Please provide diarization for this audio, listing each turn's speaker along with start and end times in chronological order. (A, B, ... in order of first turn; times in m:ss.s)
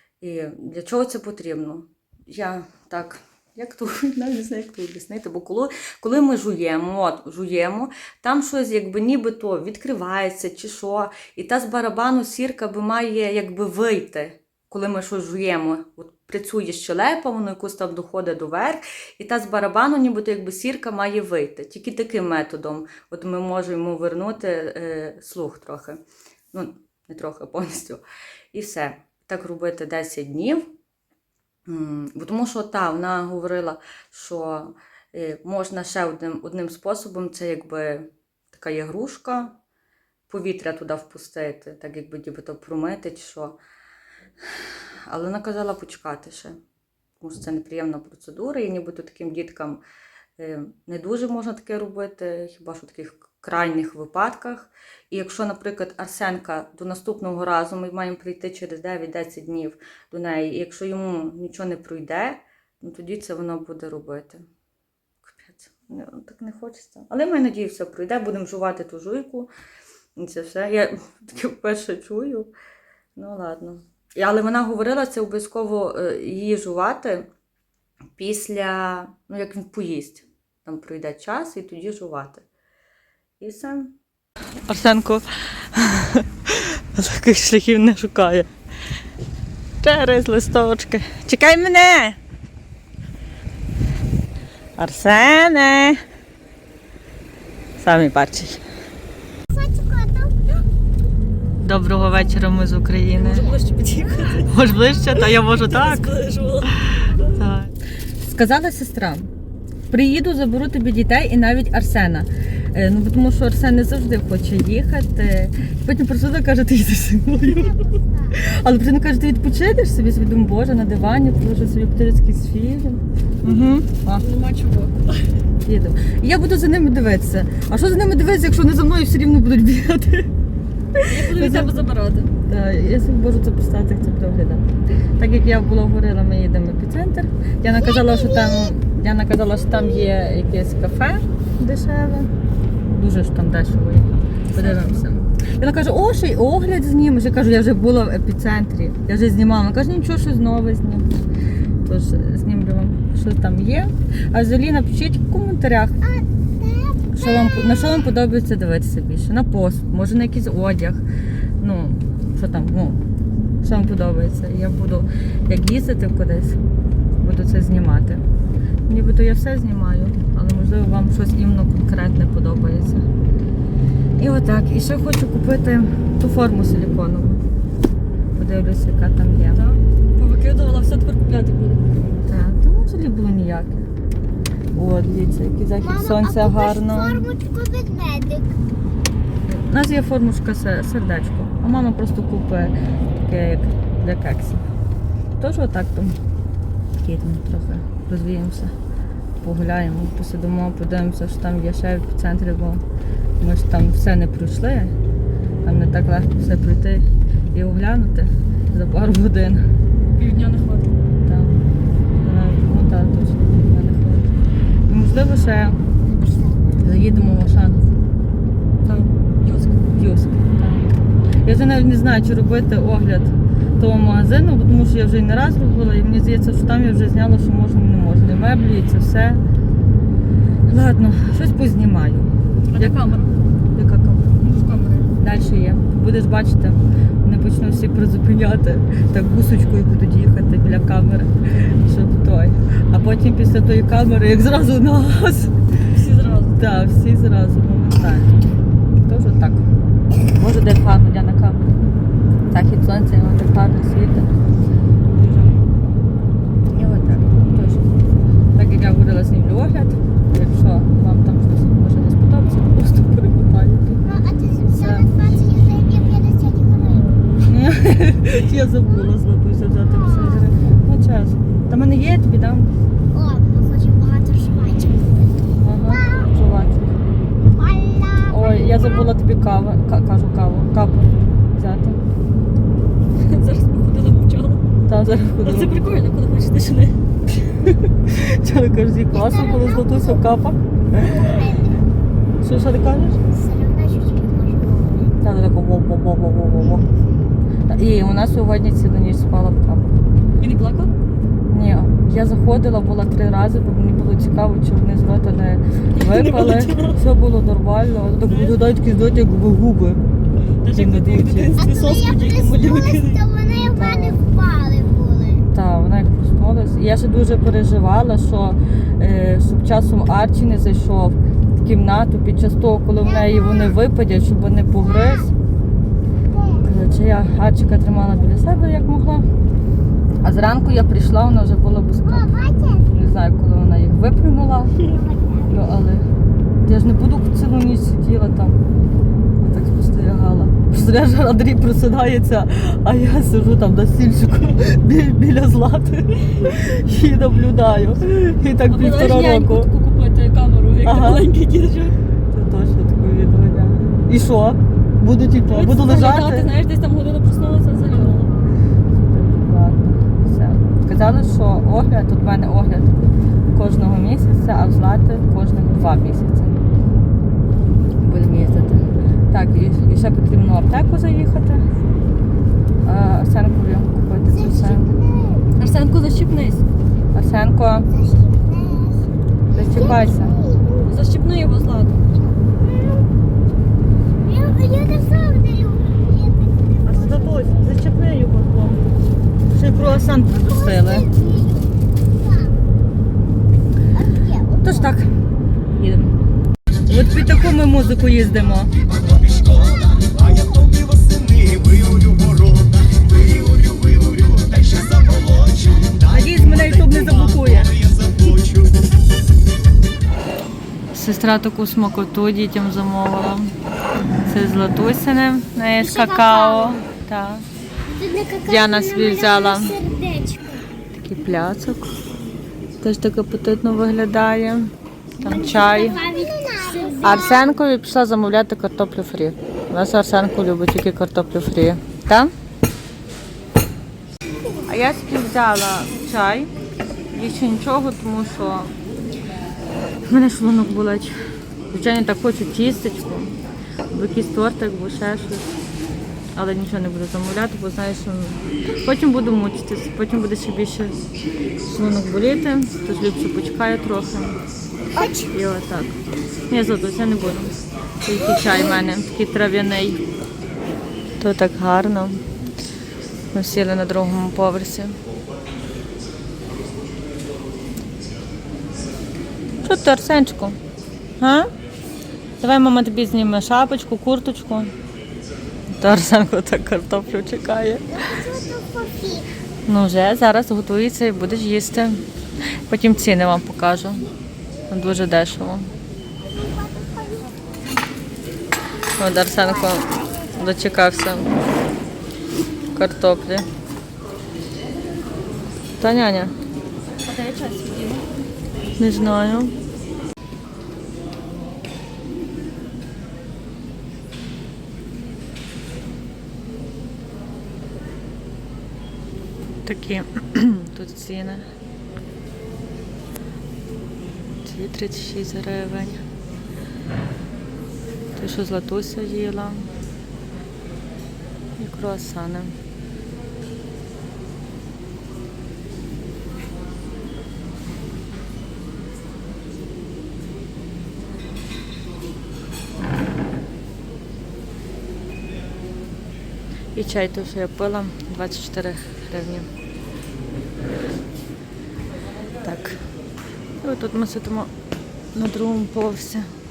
0:00.2-0:26.0 A
0:26.5-0:28.0 A
0:28.5-0:30.7 A
0:31.7-0:39.6 A
0:40.3-0:43.6 A
0:44.5-0:46.6 A
0:47.2-0:49.8 A
0:50.4-1:04.5 A
1:05.2-1:09.5 A
1:10.2-1:12.5 A
1:13.2-1:17.3 A
1:18.2-1:22.5 A
1:23.4-1:24.0 A
1:24.7-1:28.5 A
1:29.8-1:32.2 A
1:34.8-1:36.0 A
1:37.8-1:38.6 A
1:39.5-1:40.7 B
1:41.6-1:43.5 A
1:43.2-1:44.5 C
1:44.4-1:46.1 A
1:45.1-1:47.4 C
1:46.9-1:49.3 A
1:49.9-1:57.8 A
1:57.4-1:58.4 B
1:58.3-2:04.2 A
2:03.4-2:05.2 C
2:05.6-2:10.3 A
2:10.9-2:11.7 A
2:11.0-2:12.3 C
2:12.5-2:22.3 A
2:17.7-2:18.8 B
2:19.4-2:20.1 B
2:22.9-2:31.2 A
2:24.5-2:25.1 C
2:31.8-2:36.0 A
2:36.0-2:38.1 B
2:37.1-2:41.0 A
2:41.6-2:43.0 A
2:43.6-2:46.6 A
2:47.2-2:48.2 A
2:48.9-2:53.1 A
2:54.2-2:57.4 A
2:58.4-2:59.6 A
2:59.5-3:01.8 C
3:02.2-3:03.9 A
3:04.7-3:07.2 A
3:05.8-3:08.6 B
3:09.5-3:14.7 A
3:15.4-3:16.2 A
3:17.0-3:18.8 A
3:19.4-3:22.8 A
3:23.4-3:25.0 A
3:25.6-3:29.6 A
3:30.2-3:30.9 C
3:31.3-3:31.5 A
3:32.2-3:34.3 A
3:34.9-3:35.8 A
3:36.8-3:37.8 A
3:38.8-3:39.8 C
3:39.9-3:49.4 A
3:50.7-3:53.0 A
3:52.7-3:53.3 C
3:53.8-3:54.3 A
3:54.4-3:55.1 C
3:55.2-4:05.6 A
4:05.9-4:06.6 C
4:06.6-4:08.4 A
4:09.0-4:09.7 A
4:10.4-4:11.7 A
4:12.5-4:14.3 A
4:15.2-4:15.5 A
4:16.7-4:18.0 A
4:18.6-4:24.0 A
4:24.0-4:27.3 B
4:24.7-4:25.1 A
4:27.4-4:32.7 A
4:28.5-4:29.2 B
4:29.8-4:30.5 B
4:33.1-4:36.3 B
4:35.6-4:37.0 A
4:37.5-4:39.2 B
4:38.3-4:42.0 A
4:43.2-4:44.6 C
4:44.9-4:45.7 A
4:45.4-4:47.0 C
4:48.0-4:51.3 A
4:49.1-4:50.2 B
4:51.0-4:51.8 B
4:52.4-4:53.2 A
4:53.3-4:55.2 B
4:55.2-4:56.8 A
4:57.7-5:00.0 A
5:00.4-5:00.9 C
5:01.5-5:10.0 A
5:06.0-5:07.0 C
5:08.2-5:08.8 C
5:10.5-5:13.2 C
5:10.7-5:11.6 A
5:11.6-5:15.5 B
5:13.7-5:14.2 A
5:15.5-5:25.3 A
5:23.0-5:23.8 B
5:24.8-5:25.3 B
5:26.3-5:26.8 B
5:26.6-5:29.3 A
5:30.2-5:32.3 A
5:32.0-5:32.9 B
5:32.9-5:34.9 A
5:34.8-5:35.8 B
5:35.5-5:36.1 A
5:36.6-5:38.6 A
5:39.4-5:49.7 A
5:48.7-5:52.0 C
5:50.8-5:51.3 A
5:52.3-5:56.5 A
5:55.4-5:58.4 C
5:58.9-6:06.5 A
6:08.0-6:11.6 A
6:12.8-6:15.0 A
6:14.3-6:15.5 B
6:15.6-6:16.6 C
6:17.1-6:17.9 A
6:17.9-6:19.0 B
6:19.6-6:20.4 A
6:19.6-6:20.9 B
6:20.9-6:22.0 C
6:22.4-6:23.1 B
6:24.2-6:27.4 B
6:26.9-6:28.8 A
6:29.5-6:31.1 A
6:30.3-6:32.6 B
6:33.9-6:35.0 B
6:34.6-6:35.1 A
6:35.8-6:36.1 A
6:36.9-6:38.7 A
6:36.9-6:37.3 B
6:39.1-6:46.0 B
6:46.0-6:47.8 A
6:50.9-6:53.5 A
6:54.3-6:57.4 A
6:55.8-6:56.8 B
6:57.9-7:00.6 B
6:58.5-6:59.8 A
7:00.9-7:01.9 A
7:02.8-7:06.0 A
7:05.2-7:07.6 B
7:07.0-7:12.3 A
7:14.7-7:16.5 A
7:17.1-7:18.8 A
7:20.1-7:21.2 A
7:21.7-7:23.3 A
7:23.9-7:25.5 A
7:26.3-7:31.0 A
7:31.6-7:34.4 A
7:34.9-7:35.3 B
7:35.3-7:36.0 A
7:36.5-7:40.0 A
7:38.2-7:38.8 B
7:41.2-7:42.2 A
7:43.3-7:45.0 A
7:49.6-7:50.6 A
7:51.2-7:51.5 A
7:52.4-7:54.7 A
7:55.8-7:57.9 A
7:57.9-7:59.3 B
7:59.7-8:04.1 A
8:04.7-8:05.7 A
8:06.2-8:07.5 B
8:09.0-8:11.3 A
8:09.4-8:10.5 B
8:12.7-8:13.5 A
8:15.8-8:16.3 A
8:17.1-8:18.0 C
8:18.8-8:19.5 A
8:29.7-8:31.5 A
8:34.4-8:36.0 A
8:38.2-8:39.7 A
8:41.6-8:42.6 A
8:56.8-8:59.5 A
9:02.4-9:02.8 A
9:03.6-9:04.5 A
9:05.1-9:06.3 A